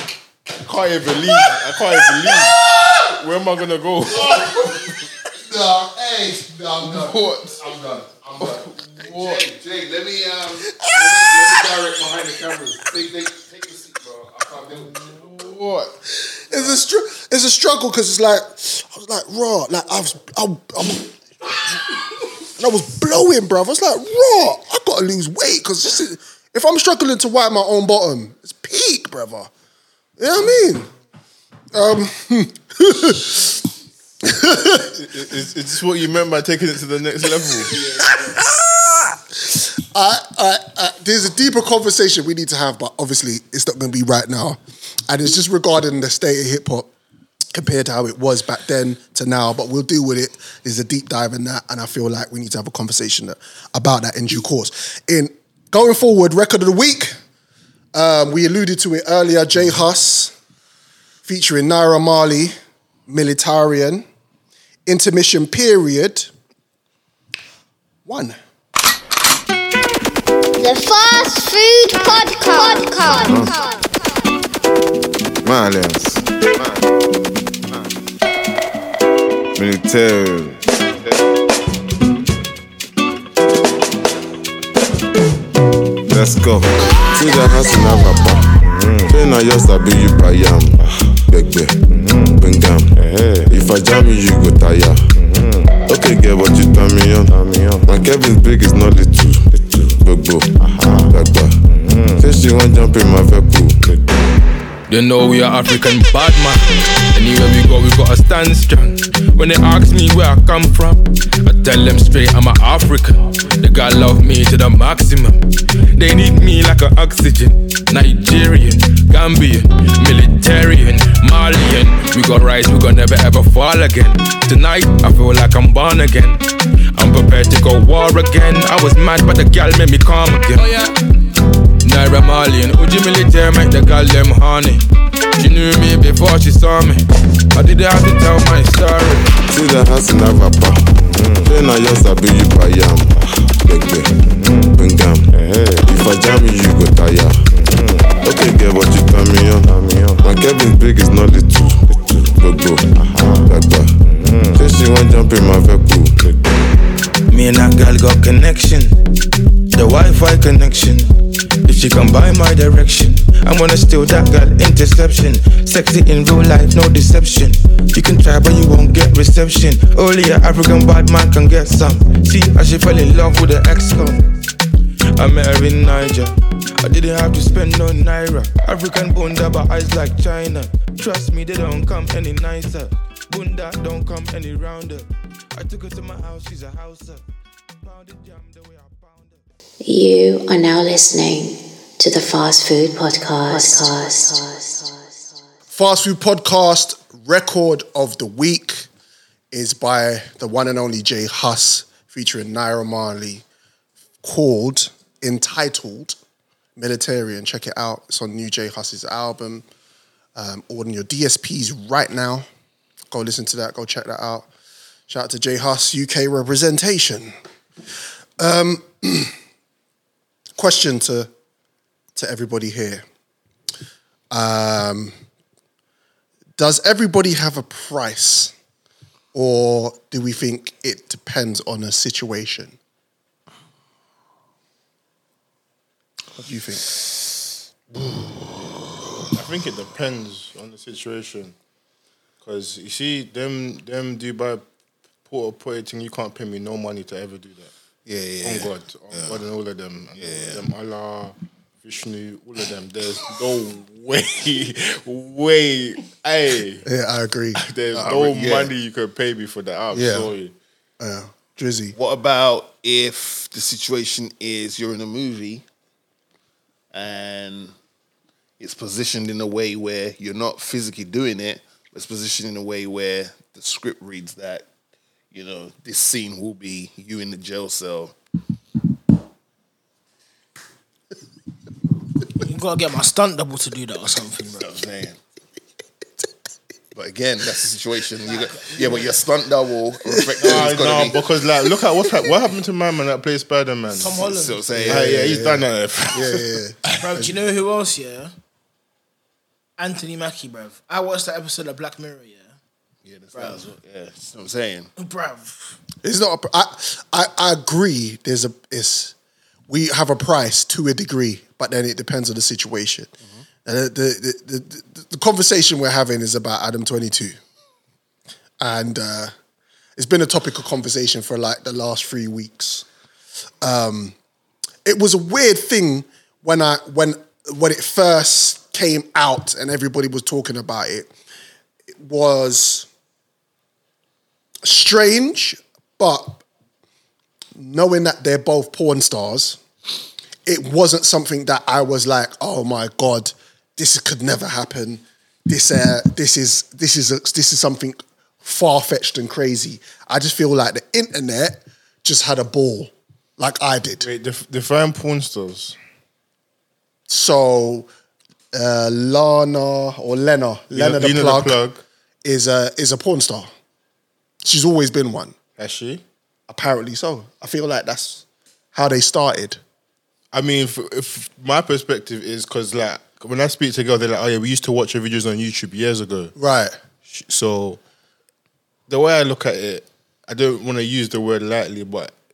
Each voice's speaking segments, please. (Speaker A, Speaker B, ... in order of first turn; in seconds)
Speaker A: 0.6-2.6, 3.2-4.7, 8.4-9.4, 15.3-15.9, 34.9-37.9, 239.3-241.5, 242.4-244.6, 245.2-247.7, 248.4-256.8, 257.5-260.5, 290.4-294.1, 294.9-296.4, 354.0-355.7, 360.7-361.8, 365.6-366.0, 370.3-376.3, 377.1-377.8, 378.9-382.1
Speaker B: 2.3-3.2, 4.0-15.5, 248.1-249.4, 250.2-250.6, 257.9-258.7, 261.9-265.6, 266.9-267.7, 268.6-274.6, 275.3-278.1, 284.6-285.2, 286.9-291.2, 294.1-295.2, 303.0-304.9
Speaker C: 10.9-11.6, 16.2-21.1, 22.6-29.5, 30.2-30.9, 31.7-33.5, 34.2-34.9, 39.4-46.9, 47.5-57.1, 57.9-60.3, 61.2-62.5, 63.1-64.0, 64.8-66.3, 68.0-68.3, 195.7-198.9, 199.5-203.4, 204.2-206.2, 206.8-209.7, 210.3-212.5, 213.1-214.5, 215.1-217.3, 218.4-219.3, 220.6-221.3, 222.1-223.0, 224.3-225.1, 226.6-228.5, 229.3-232.8, 236.4-236.8, 256.8-257.6, 259.9-260.3, 261.0-261.9, 294.8-297.3, 306.0-309.1, 309.7-313.1, 313.6-317.4, 318.6-319.3, 320.0-322.9, 323.6-324.1, 324.8-331.1, 331.9-332.9, 334.6-336.4, 337.6-339.6, 340.4-354.1, 357.1-357.9, 358.5-361.6, 362.2-363.5, 364.4-365.3, 366.5-369.6, 376.4-376.8
Speaker D: 70.6-73.9
Speaker E: 73.0-73.5, 75.4-76.8, 79.5-80.6, 86.1-104.4, 139.5-156.7
Speaker F: 104.9-126.4, 127.0-130.9, 131.8-134.8, 135.4-139.3, 157.3-159.0, 159.7-161.1, 161.7-174.3, 175.2-187.2, 187.8-189.4
Speaker G: 189.8-195.4
Speaker H: 282.4-284.7, 288.3-289.1, 293.9-294.6, 296.9-298.3, 299.8-302.5, 303.3-303.6, 305.0-305.7